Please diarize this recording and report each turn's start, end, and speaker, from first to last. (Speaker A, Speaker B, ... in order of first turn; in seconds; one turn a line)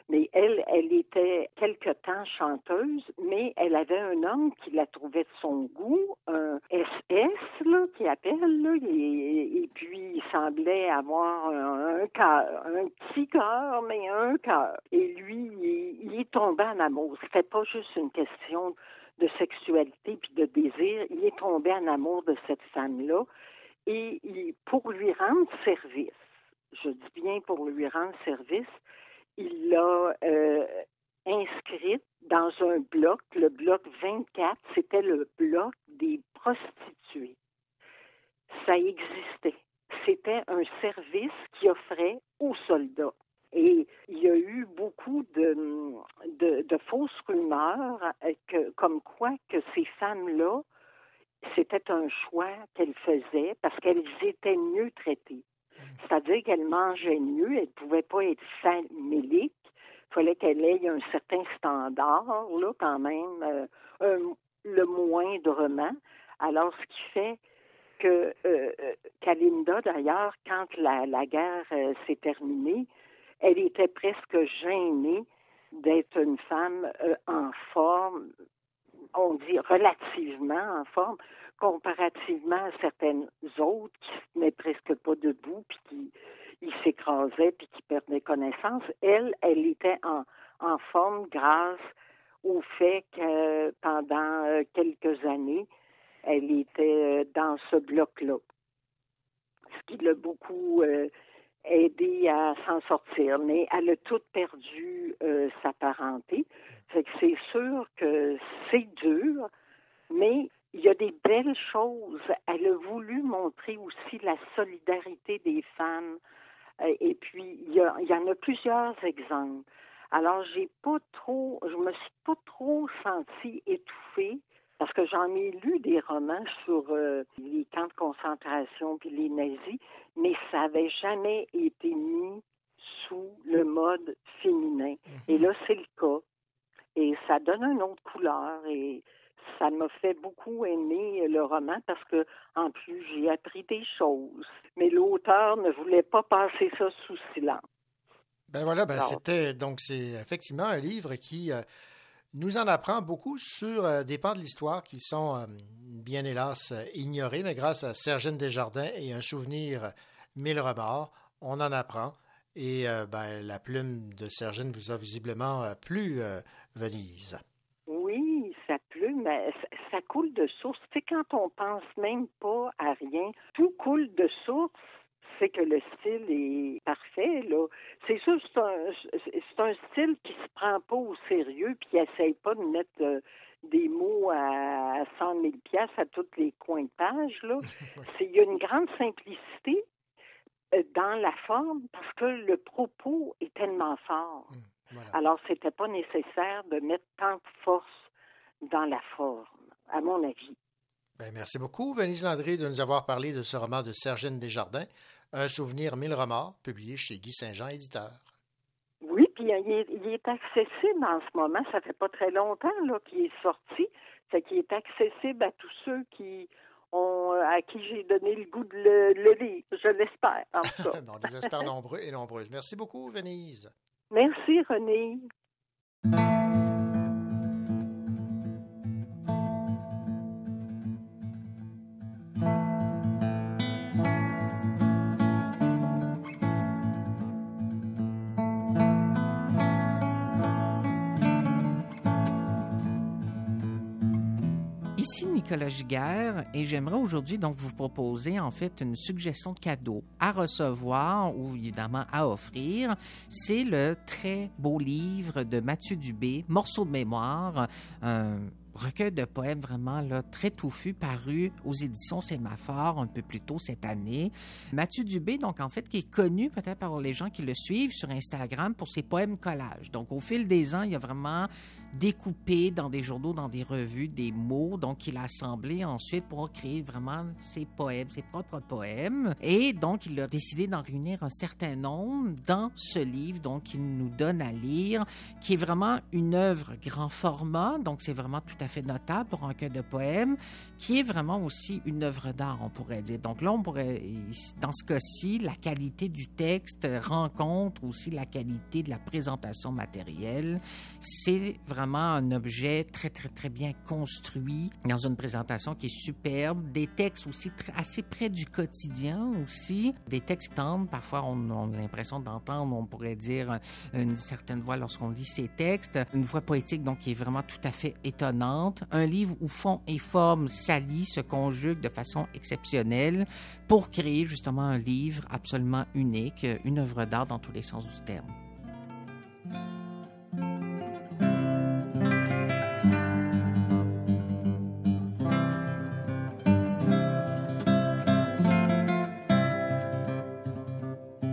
Speaker A: 0.1-23.3
Speaker A: 23.9-26.2
Speaker A: 26.7-28.8
Speaker A: 29.4-37.4
Speaker A: 38.5-50.6
Speaker A: 51.4-55.4
Speaker A: 56.0-67.4
Speaker A: 68.0-72.9
Speaker A: 73.4-78.3
Speaker A: 79.1-91.9
Speaker A: 92.4-95.7
Speaker A: 96.2-98.4
Speaker A: 99.8-101.1
Speaker A: 101.7-109.5
Speaker A: 110.1-116.2
Speaker A: 116.8-136.2
Speaker B: 135.1-135.4
Speaker A: 136.9-147.6
Speaker B: 148.5-151.6
Speaker A: 148.9-149.2
Speaker B: 152.3-167.4
Speaker A: 167.9-189.8
Speaker A: 190.7-194.5
Speaker B: 194.5-195.1
Speaker A: 195.1-198.1
Speaker A: 198.6-200.6
Speaker B: 201.2-208.3
Speaker A: 209.0-221.5
Speaker B: 220.8-223.7
Speaker A: 224.1-225.3
Speaker C: 245.0-328.3